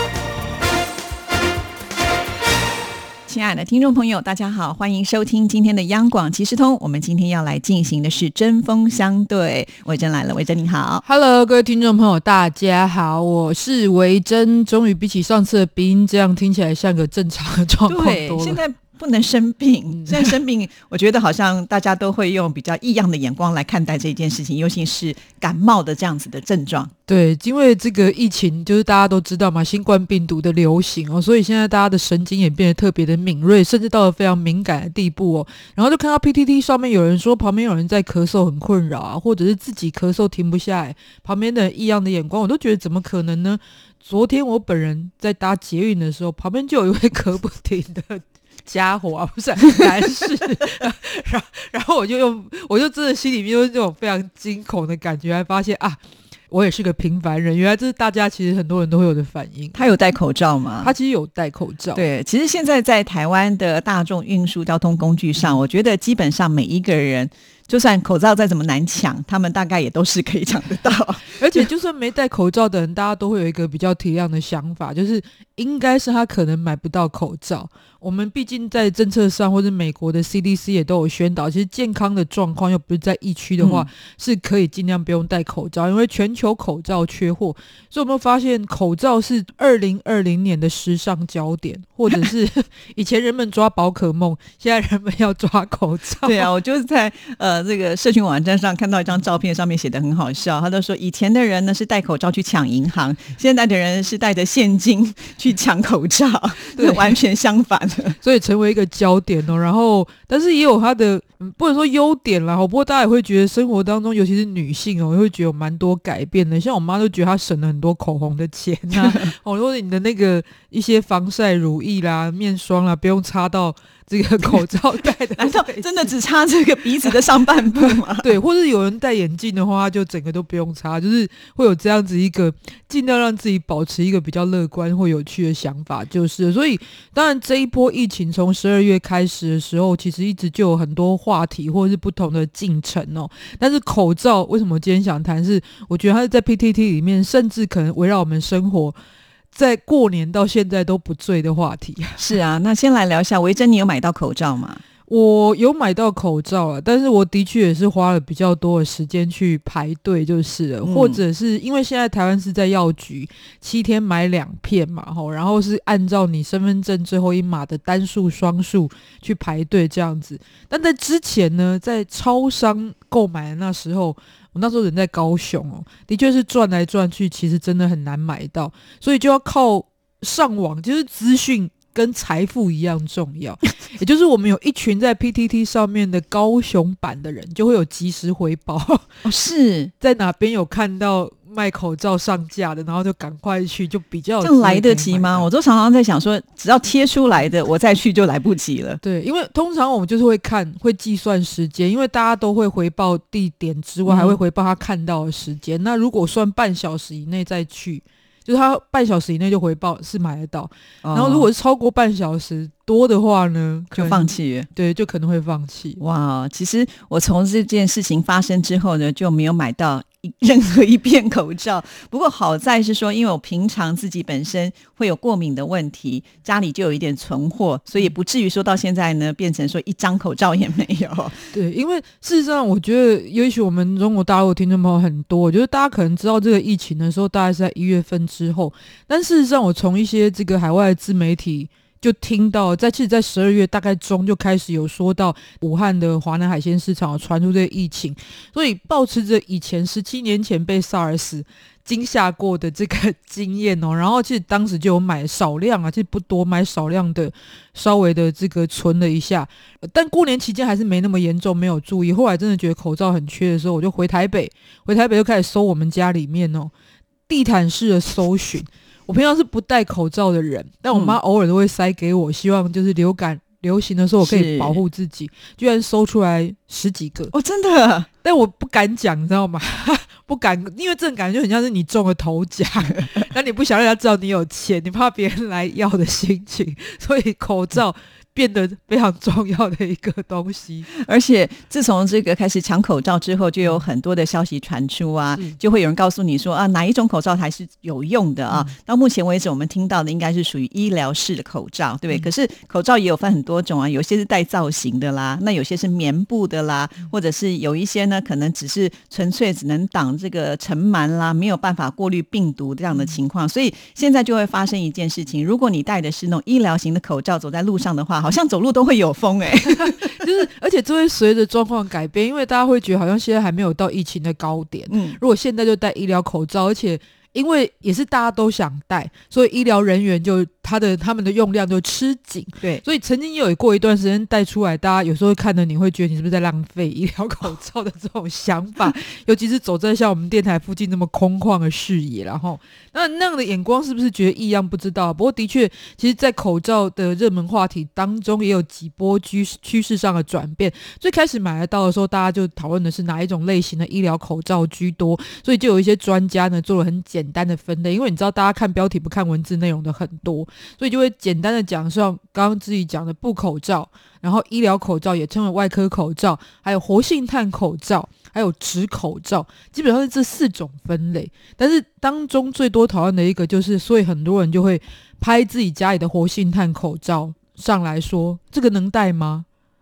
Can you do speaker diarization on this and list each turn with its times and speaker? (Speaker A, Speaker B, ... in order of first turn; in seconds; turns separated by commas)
Speaker A: 3.3-11.0, Speaker B: 11.0-18.6, Speaker A: 17.9-26.9, Speaker B: 19.9-20.4, Speaker B: 27.1-59.8, Speaker A: 59.7-60.9, Speaker B: 60.8-62.0, Speaker A: 62.0-71.7, Speaker B: 71.2-96.5, Speaker A: 83.6-83.9, Speaker A: 96.2-108.2, Speaker B: 106.8-107.2, Speaker B: 108.2-126.1, Speaker A: 125.4-128.3, Speaker B: 127.8-149.0, Speaker B: 149.5-152.3, Speaker A: 152.2-154.8, Speaker B: 155.1-189.2, Speaker A: 160.8-161.2, Speaker A: 189.2-189.9, Speaker B: 190.0-195.5, Speaker A: 194.4-199.0, Speaker B: 199.0-216.0, Speaker A: 204.1-204.4, Speaker A: 211.0-211.5, Speaker A: 213.9-214.7, Speaker A: 216.0-231.5, Speaker B: 231.5-266.7, Speaker B: 267.3-277.3, Speaker A: 270.9-271.2, Speaker A: 274.2-274.8, Speaker A: 277.3-278.1, Speaker B: 278.2-290.9, Speaker A: 291.0-320.2, Speaker B: 298.5-298.8, Speaker B: 319.6-379.5, Speaker A: 324.9-325.2